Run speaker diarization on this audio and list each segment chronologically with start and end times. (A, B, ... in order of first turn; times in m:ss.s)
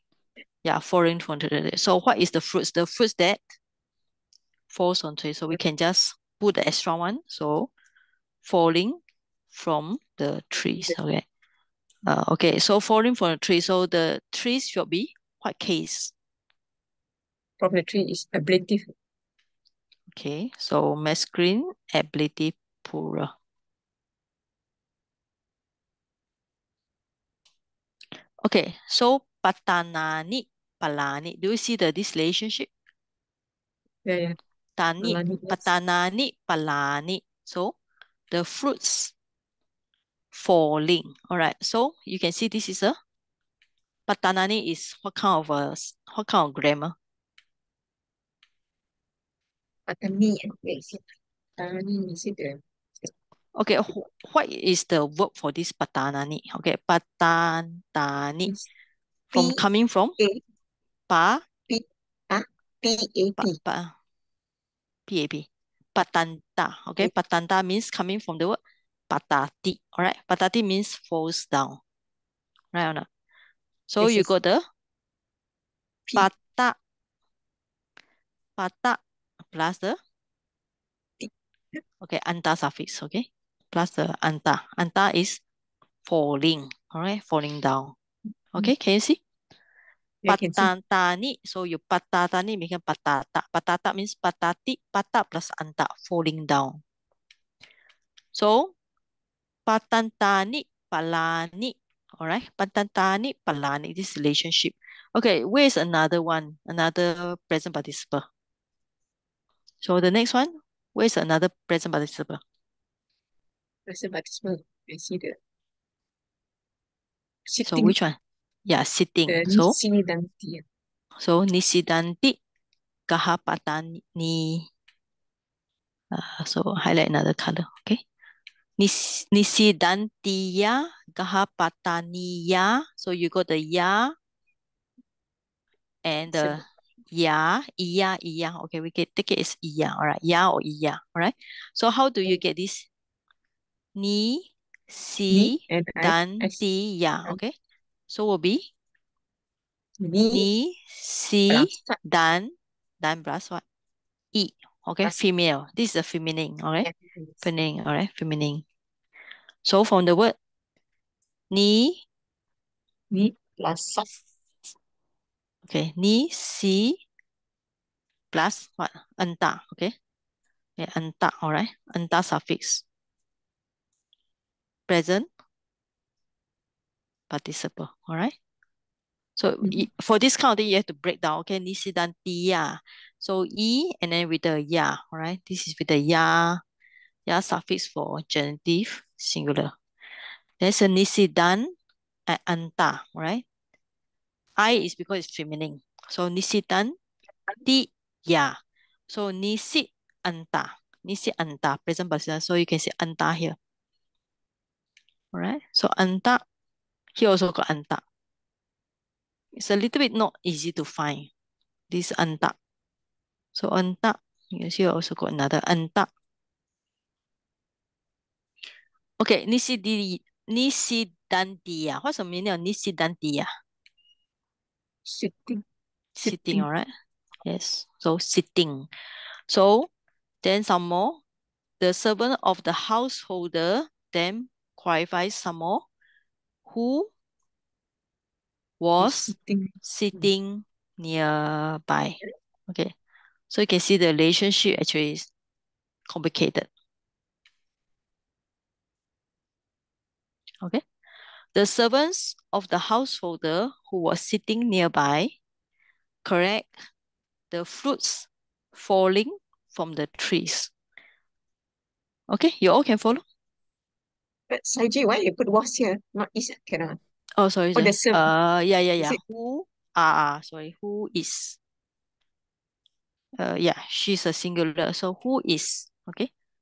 0:00.6-0:03.4 A
0:04.7-0:07.7 A
0:08.4-0:11.2 A
0:12.1-0:16.1 A
0:17.6-0:18.9 B
0:20.1-0:23.3 A
0:28.4-0:32.7 A
0:34.0-0:34.4 B
0:34.8-0:37.7 A
0:35.0-0:35.7 B
0:38.3-0:39.1 A
0:40.3-0:43.0 A
0:44.1-0:46.9 A
0:49.9-0:51.0 B
0:51.6-0:53.1 B
0:53.6-0:58.5 A
0:59.3-1:00.2 A
0:59.3-0:59.6 B
1:01.1-1:01.4 A
1:01.7-1:03.6 B
1:03.4-1:03.9 A
1:05.1-1:08.6 A
1:09.1-1:11.8 A
1:12.7-1:13.1 A
1:13.9-1:14.6 A
1:14.0-1:14.3 B
1:16.2-1:16.8 A
1:18.6-1:19.0 A
1:19.5-1:20.0 A
1:21.2-1:21.8 B
1:22.0-1:25.4 A
1:26.1-1:28.0 A
1:28.5-1:29.2 A
1:30.2-1:30.7 B
1:30.3-1:36.8 A
1:38.3-1:38.7 A
1:39.6-1:48.3 A
1:49.8-1:52.4 A
1:53.9-1:55.4 B
1:57.5-1:58.0 B
1:57.6-1:59.8 A
1:59.3-2:00.6 B
2:01.2-2:02.4 A
2:03.1-2:04.6 A
2:06.1-2:08.0 A
2:08.8-2:14.2 A
2:16.0-2:16.6 A
2:16.3-2:16.6 B
2:17.1-2:22.9 A
2:24.0-2:27.5 A
2:25.3-2:26.6 B
2:28.1-2:28.7 A
2:30.0-2:30.5 B
2:30.3-2:33.6 A
2:31.5-2:32.0 B
2:34.3-2:36.9 A
2:36.8-2:37.4 B
2:37.4-2:38.6 A
2:39.6-2:40.4 A
2:41.5-2:42.0 A
2:43.1-2:44.1 B
2:45.6-2:47.0 A
2:48.3-2:49.9 A
2:50.8-2:52.8 A
2:54.9-2:55.3 A
2:57.3-2:58.3 A
2:59.4-3:06.6 A
3:07.3-3:09.7 A
3:10.6-3:11.7 A
3:12.3-3:13.4 A
3:14.6-3:17.0 A
3:17.6-3:18.6 A
3:19.1-3:23.6 A
3:25.3-3:26.4 A
3:27.2-3:28.0 A
3:29.6-3:31.3 A
3:31.9-3:32.6 A
3:33.6-3:36.1 A
3:39.2-3:43.5 A
3:45.1-3:45.6 B
3:46.2-3:46.9 A
3:46.2-3:46.7 B
3:47.4-3:48.9 A
3:49.5-3:49.9 A
3:50.4-3:51.2 A
3:51.8-3:55.8 A
3:56.6-3:57.1 A
3:58.8-4:02.2 A
3:59.0-4:00.3 B
4:03.5-4:05.3 A
4:06.1-4:06.7 A
4:11.6-4:15.3 A
4:16.2-4:16.8 A
4:17.5-4:20.7 A
4:22.3-4:23.2 A
4:24.5-4:27.0 B
4:27.4-4:31.6 A
4:27.7-4:28.3 B
4:33.4-4:36.3 A